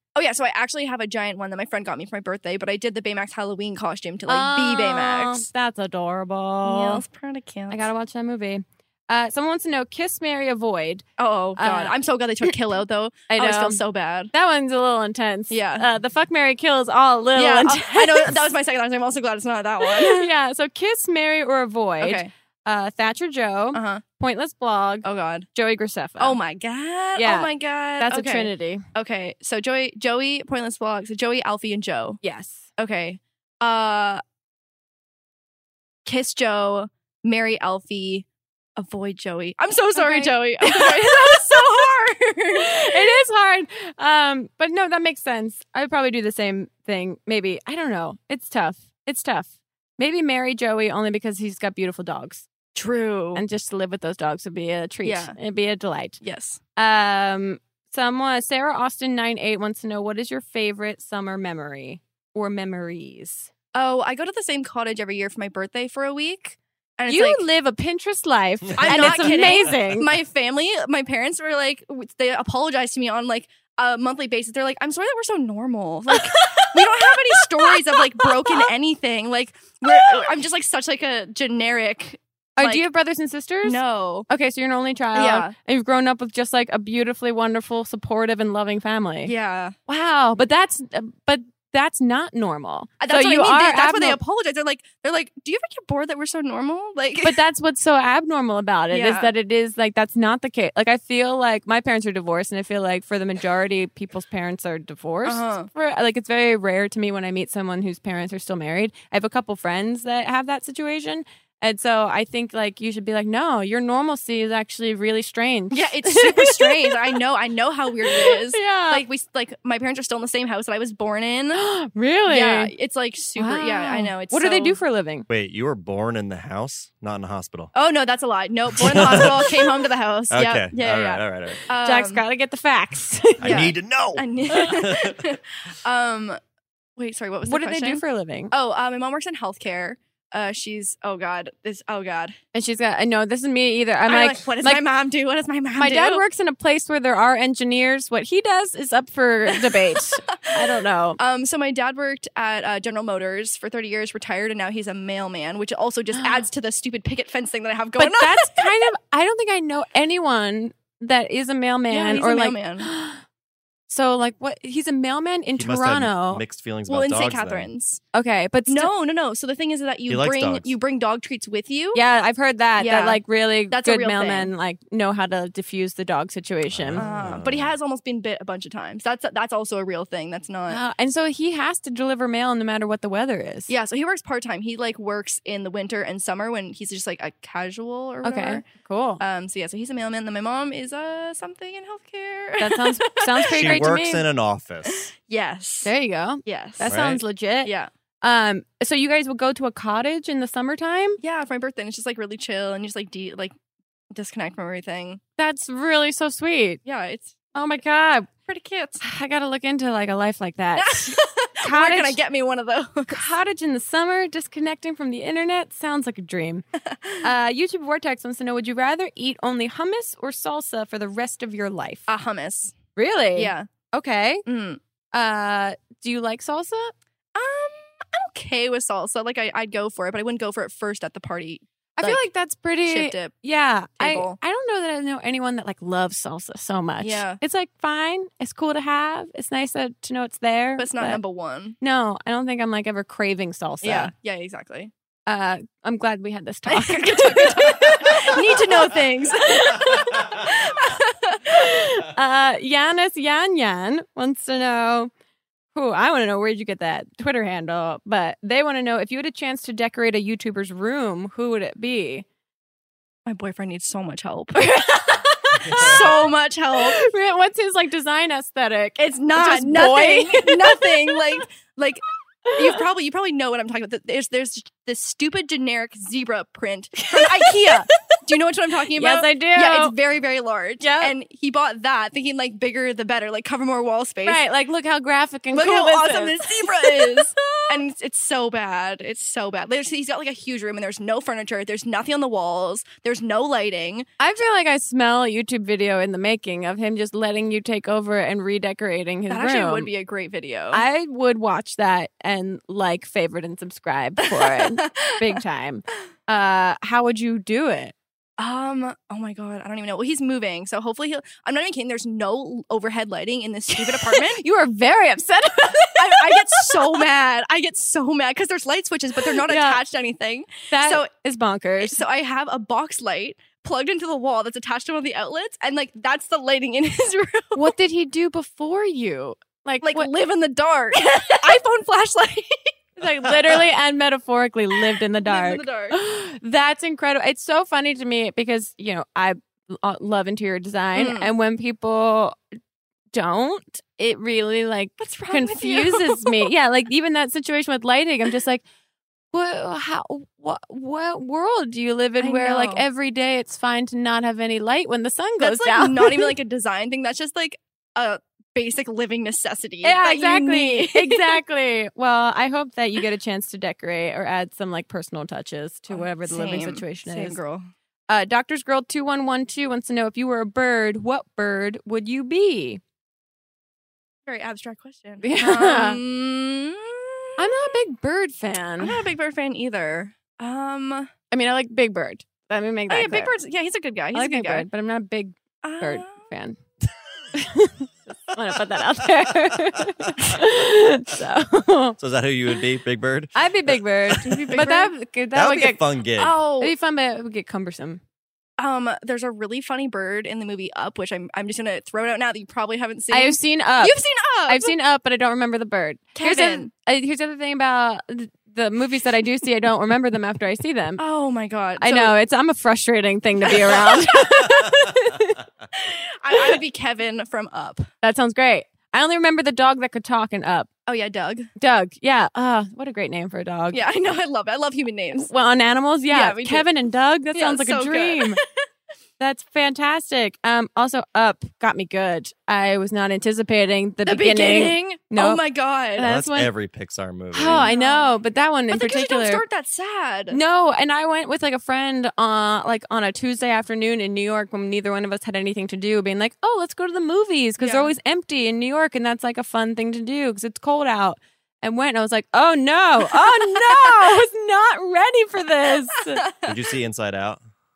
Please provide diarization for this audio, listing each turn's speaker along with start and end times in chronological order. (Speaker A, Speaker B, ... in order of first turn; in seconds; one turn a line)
Speaker A: 0.1-5.5
Speaker B: 4.3-7.0
Speaker A: 6.6-7.9
Speaker B: 7.7-11.1
Speaker A: 11.2-14.3
Speaker B: 11.6-11.9
Speaker B: 13.3-13.8
Speaker B: 14.3-18.5
Speaker A: 15.5-15.9
Speaker A: 17.4-20.3
Speaker B: 19.8-26.4
Speaker A: 22.0-22.3
Speaker A: 23.7-24.0
Speaker A: 25.0-25.5
Speaker A: 26.2-32.2
Speaker B: 27.1-28.8
Speaker B: 32.2-32.6
Speaker A: 32.8-34.2
Speaker A: 36.0-38.3
Speaker A: 38.8-43.1
Speaker B: 40.0-41.8
Speaker B: 42.5-52.5
Speaker A: 52.7-53.4
Speaker B: 53.3-56.2
Speaker A: 55.0-55.4
Speaker A: 56.2-56.6
Speaker B: 56.8-63.5
Speaker A: 63.7-67.4
Speaker B: 67.1-70.1
Speaker A: 68.8-82.8
Speaker B: 76.1-78.7
Speaker B: 79.8-80.2
Speaker B: 82.6-89.3
Speaker A: 83.6-84.3
Speaker A: 85.1-85.5
Speaker A: 89.2-89.7
Speaker B: 89.9-94.2
Speaker A: 93.0-97.4
Speaker B: 97.2-117.0
Speaker A: 98.9-99.3
Speaker A: 105.2-105.7
Speaker A: 115.7-121.6
Speaker B: 118.0-119.0
Speaker B: 121.5-122.7
Speaker A: 122.3-124.8
Speaker B: 123.4-125.3
Speaker C: 125.3-127.7
Speaker A: 127.7-132.2
Speaker C: 128.8-129.7
Speaker C: 130.3-131.6
Speaker B: 131.8-133.7
Speaker C: 133.4-135.2
Speaker A: 133.4-136.4
Speaker A: 137.0-142.4
Speaker B: 137.4-138.5
Speaker B: 142.5-144.8
Speaker A: 144.1-146.2
Speaker B: 145.8-151.2
Speaker A: 149.6-158.7
Speaker B: 156.2-156.4
Speaker B: 158.0-163.2
Speaker A: 161.9-162.9
Speaker B: 163.9-166.4
Speaker C: 165.6-167.7
Speaker A: 166.9-168.0
Speaker B: 168.1-168.9
Speaker A: 168.7-172.0
Speaker C: 170.1-170.7
Speaker B: 171.9-177.1
Speaker A: 172.8-174.5
Speaker C: 176.7-177.7
Speaker A: 176.9-180.8
Speaker B: 180.7-183.7
Speaker A: 183.7-188.7
Speaker B: 188.2-189.2
Speaker A: 189.2-193.8
Speaker B: 192.6-194.2
Speaker C: 193.5-195.1
Speaker A: 194.8-195.9
Speaker B: 195.8-197.7
Speaker A: 196.4-196.9
Speaker C: 196.9-197.2
Speaker A: 197.6-197.9
Speaker B: 198.2-201.2
Speaker A: 201.2-203.5
Speaker A: 204.1-205.2
Speaker B: 205.4-206.8
Speaker A: 206.8-207.3
Speaker B: 207.6-208.3
Speaker A: 208.5-209.0
Speaker B: 209.0-212.2
Speaker A: 210.8-213.2
Speaker B: 213.1-216.6
Speaker A: 216.8-217.3
Speaker B: 217.2-222.1
Speaker A: 222.1-222.7
Speaker B: 222.9-224.4
Speaker A: 223.4-223.7
Speaker A: 224.4-224.8
Speaker B: 225.1-226.9
Speaker A: 227.3-232.2
Speaker B: 232.0-241.2
Speaker A: 232.9-233.4
Speaker A: 234.0-234.4
Speaker A: 237.0-237.4
Speaker A: 240.8-241.8
Speaker B: 241.8-244.1
Speaker A: 243.8-244.9
Speaker B: 245.3-250.2
Speaker A: 246.7-251.4
Speaker B: 251.4-255.1
Speaker B: 255.7-262.2
Speaker A: 263.3-264.7
Speaker B: 264.6-266.1
Speaker C: 265.6-265.9
Speaker A: 265.6-267.0
Speaker B: 266.8-271.2
Speaker A: 269.1-284.4
Speaker B: 272.4-272.8
Speaker B: 277.0-277.9
Speaker B: 278.9-279.9
Speaker B: 280.8-281.1
Speaker B: 284.2-287.3
Speaker A: 285.5-294.1
Speaker B: 294.2-299.9
Speaker A: 299.3-300.8
Speaker B: 300.7-307.9
Speaker A: 304.2-305.4
Speaker A: 308.4-314.4
Speaker B: 313.7-316.9
Speaker A: 315.9-321.1
Speaker B: 319.3-319.8
Speaker B: 320.7-322.0
Speaker A: 321.8-327.7
Speaker B: 327.6-330.1
Speaker A: 329.8-332.7
Speaker B: 330.9-331.5
Speaker B: 333.0-342.4
Speaker A: 335.2-336.0
Speaker A: 340.9-341.3
Speaker B: 343.1-348.6
Speaker A: 345.0-346.5
Speaker B: 349.3-356.3
Speaker A: 352.2-352.8
Speaker A: 355.4-361.4
Speaker B: 359.8-367.4
Speaker A: 365.9-367.7
Speaker B: 368.1-372.8
Speaker A: 374.3-377.7
Speaker B: 375.2-376.0
Speaker B: 377.4-379.0
Speaker A: 378.8-381.1
Speaker B: 381.3-383.3
Speaker A: 382.9-384.6
Speaker B: 384.1-386.6
Speaker A: 385.6-386.2
Speaker B: 387.3-392.0
Speaker C: 392.0-394.6
Speaker B: 393.3-395.8
Speaker A: 394.2-394.9
Speaker C: 395.3-396.4
Speaker A: 396.2-396.7
Speaker B: 396.6-398.0
Speaker A: 398.6-404.7
Speaker B: 403.1-411.0
Speaker A: 406.1-406.7
Speaker A: 411.0-412.1
Speaker B: 411.8-415.4
Speaker A: 413.4-414.6
Speaker A: 415.7-417.9
Speaker B: 418.0-420.7
Speaker A: 420.9-421.5
Speaker B: 421.6-423.8
Speaker A: 423.7-425.3
Speaker B: 425.2-428.4
Speaker A: 426.1-426.7
Speaker A: 427.3-428.6
Speaker B: 429.2-435.4
Speaker A: 434.1-436.1
Speaker B: 436.0-436.5
Speaker C: 436.0-437.7
Speaker B: 437.3-439.4
Speaker A: 437.6-438.1
Speaker A: 438.7-440.4
Speaker B: 440.3-456.2
Speaker A: 447.6-447.9
Speaker A: 453.1-454.0
Speaker A: 456.1-456.6
Speaker C: 456.4-457.4